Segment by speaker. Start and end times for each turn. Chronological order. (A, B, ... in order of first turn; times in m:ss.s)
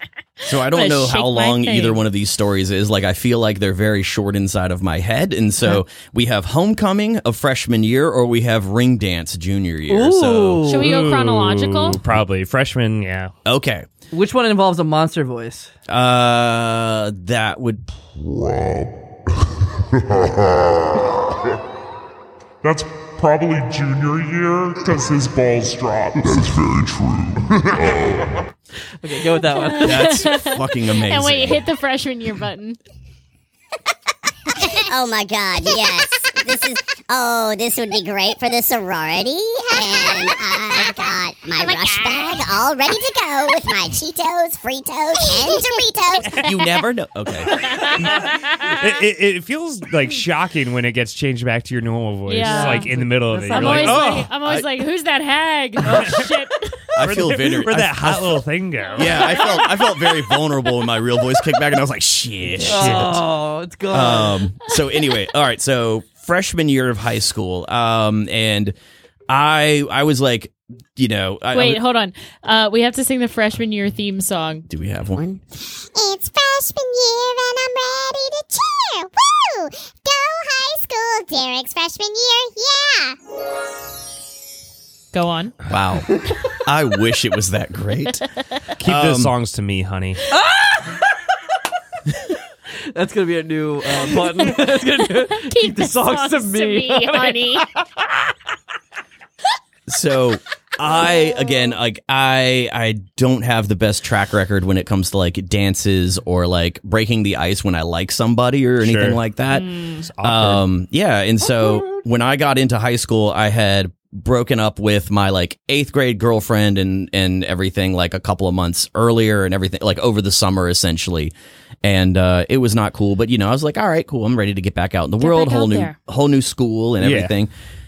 0:00.4-0:02.0 A
0:00.5-0:10.7 B
0:09.9-0:10.9 C
0:10.7-0:12.0 A
0:10.8-0:13.3 D
0:13.4-0:13.9 B
0:14.1-0:15.7 C
0:15.9-0:18.0 B
0:18.2-0:19.0 E
0:20.0-0:21.4 E
0:22.6-0:28.5 E
0:29.0-0:30.3 C
0:29.5-0:32.8 A
0:29.8-0:31.7 B
0:34.6-0:46.5 F
0:41.6-0:42.4 A
0:46.4-0:48.2 B
0:47.5-0:48.7 A
0:48.7-0:54.3 D
0:52.3-0:52.9 A
0:52.4-0:54.3 C
0:53.5-0:56.7 A
0:55.9-0:56.2 C
0:57.0-1:03.2 B
0:57.0-0:59.4 D
0:58.9-0:59.9 A
1:02.6-1:03.2 D
1:02.7-1:04.4 C
1:03.9-1:08.8 B
1:09.3-1:11.8 B
1:11.5-1:14.7 A
1:14.7-1:15.2 B
1:15.2-1:23.2 F
1:25.1-1:25.6 A
1:25.7-1:28.2 B
1:28.8-1:30.3 D
1:28.8-1:29.3 B
1:30.3-1:31.0 C
1:32.9-1:38.1 C
1:34.5-1:37.7 A
1:39.9-1:49.7 B
1:48.8-1:49.2 D
1:49.5-1:50.0 A
1:50.0-1:50.6 D
1:50.2-2:01.3 B
1:51.4-1:52.0 C
2:01.8-2:07.5 B
2:05.2-2:06.0 A
2:07.0-2:07.3 D